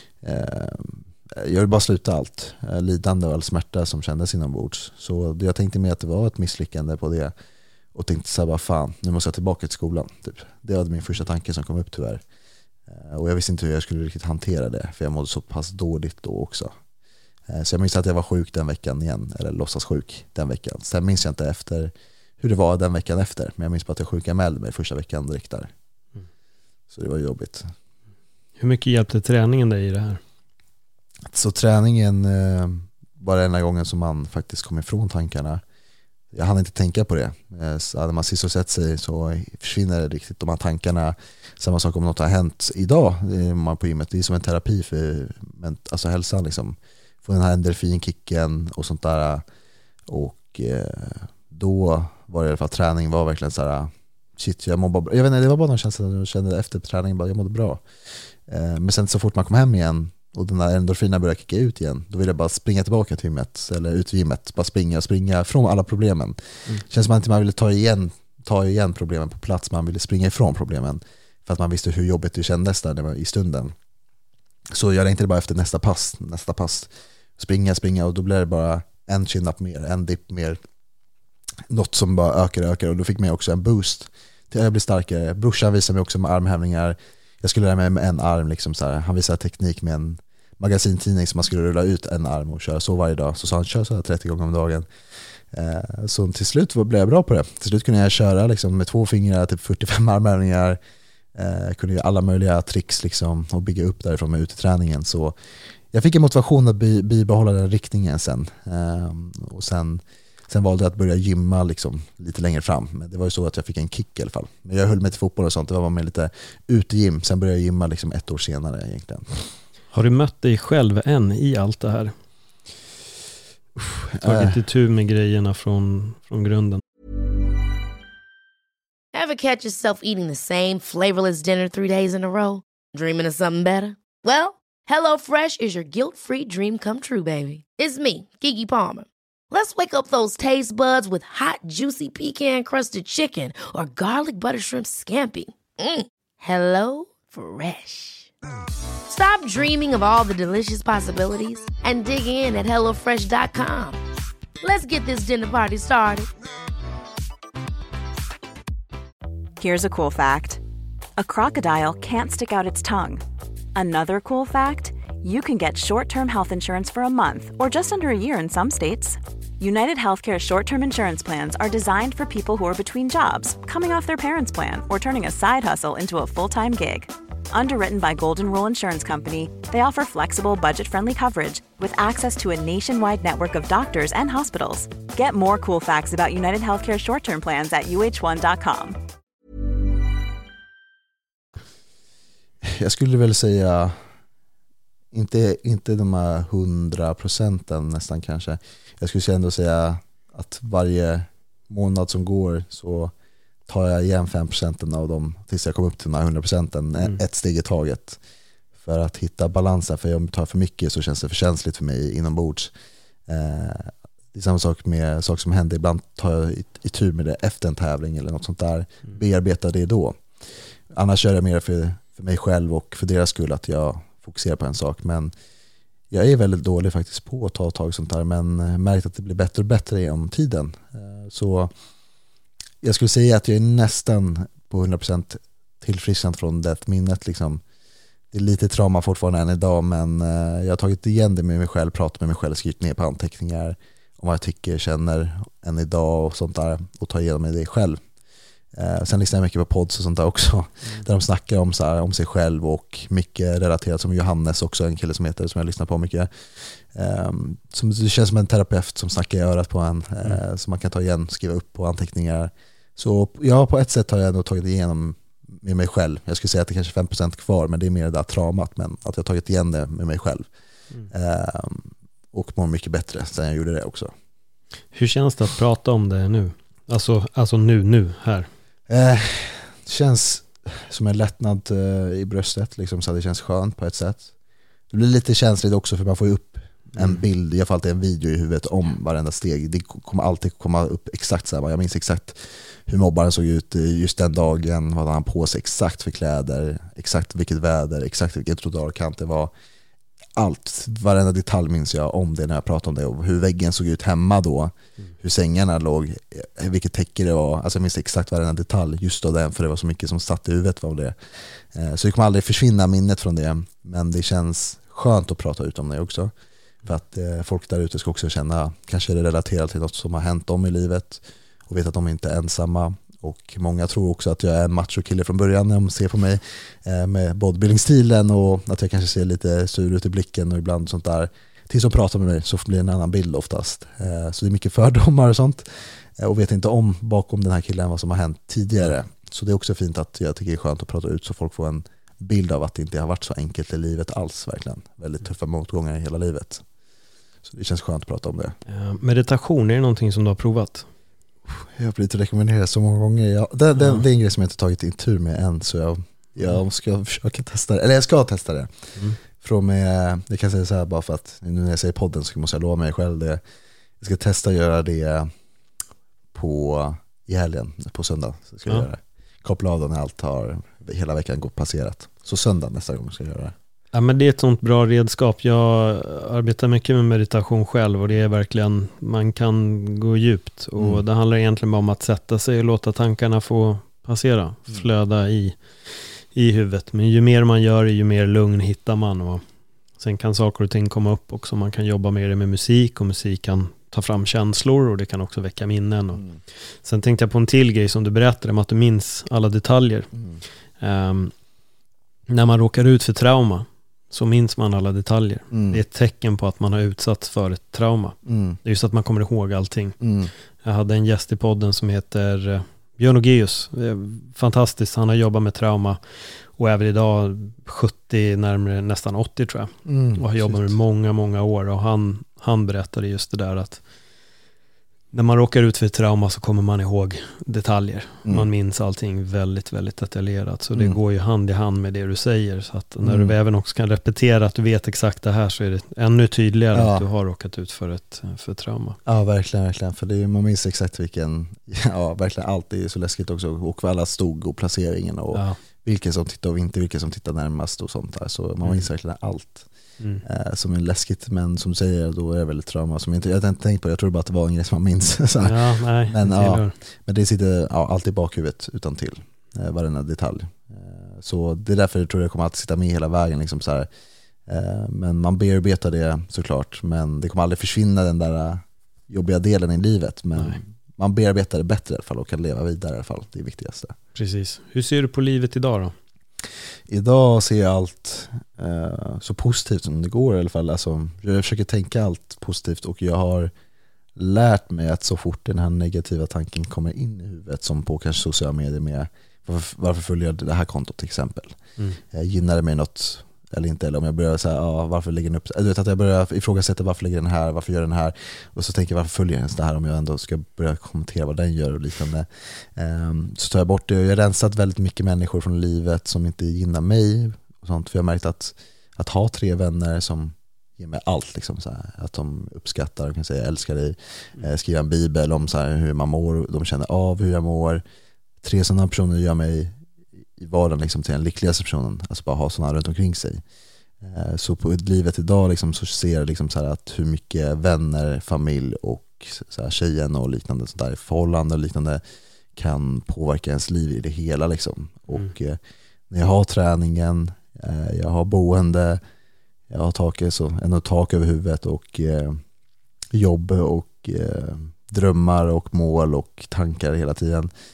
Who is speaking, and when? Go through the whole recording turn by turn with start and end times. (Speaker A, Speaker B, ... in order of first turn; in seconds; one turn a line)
Speaker A: 0.2-7.3
Speaker A: 7.9-12.2
Speaker A: 12.9-16.7
Speaker A: 17.5-25.7
Speaker A: 26.9-27.7
Speaker B: 28.6-30.2
Speaker A: 31.3-35.6
Speaker A: 36.3-49.4
Speaker A: 50.1-73.7
Speaker A: 74.7-80.6
Speaker A: 81.7-94.8
Speaker A: 95.5-100.8
Speaker A: 101.3-105.3
Speaker A: 105.9-119.4
Speaker B: 119.9-122.1
Speaker A: 124.1-124.6
Speaker B: 124.2-126.8
Speaker C: 129.1-148.3
Speaker C: 149.1-154.0
Speaker C: 154.6-156.3
Speaker D: 159.6-160.6
Speaker D: 161.2-163.2
Speaker D: 163.7-189.0
Speaker A: 192.6-193.9
Speaker A: 195.1-203.1
Speaker A: 203.7-208.2
Speaker A: 208.8-212.7
Speaker A: 213.3-220.2
Speaker A: 220.9-225.3
Speaker A: 226.1-231.7
Speaker A: 232.8-237.6
Speaker A: 238.3-248.0
Speaker A: 248.7-270.4
Speaker A: 271.1-274.1
Speaker B: 274.9-278.5
Speaker A: 278.9-284.3
Speaker A: 284.9-299.5
Speaker A: 300.4-316.3
Speaker A: 316.8-346.6
Speaker A: 347.4-348.5
Speaker B: 348.7-350.9
Speaker A: 351.5-358.9
Speaker A: 359.4-363.4
Speaker A: 364.0-365.3
Speaker A: 366.3-373.5
Speaker B: 373.9-389.4
Speaker A: 380.8-381.0
Speaker B: 390.0-400.1
Speaker A: 400.1-400.4
Speaker B: 400.8-401.3
Speaker B: 402.3-410.0
Speaker A: 405.5-405.8
Speaker A: 408.2-408.6
Speaker A: 410.0-410.3
Speaker B: 410.6-416.0
Speaker B: 416.5-423.8
Speaker A: 419.9-420.7
Speaker B: 425.1-439.0
Speaker A: 433.0-433.3
Speaker A: 436.7-437.0
Speaker A: 439.1-449.6
Speaker B: 445.3-445.6
Speaker A: 450.2-463.9
Speaker B: 455.4-456.7
Speaker A: 464.5-473.9
Speaker B: 474.1-475.9
Speaker A: 476.9-483.5
Speaker A: 484.1-491.6
Speaker A: 492.1-517.8
Speaker A: 518.4-519.8
Speaker A: 520.4-523.4
Speaker A: 524.0-532.0
Speaker A: 532.5-539.0
Speaker A: 539.7-542.4
Speaker A: 543.1-547.5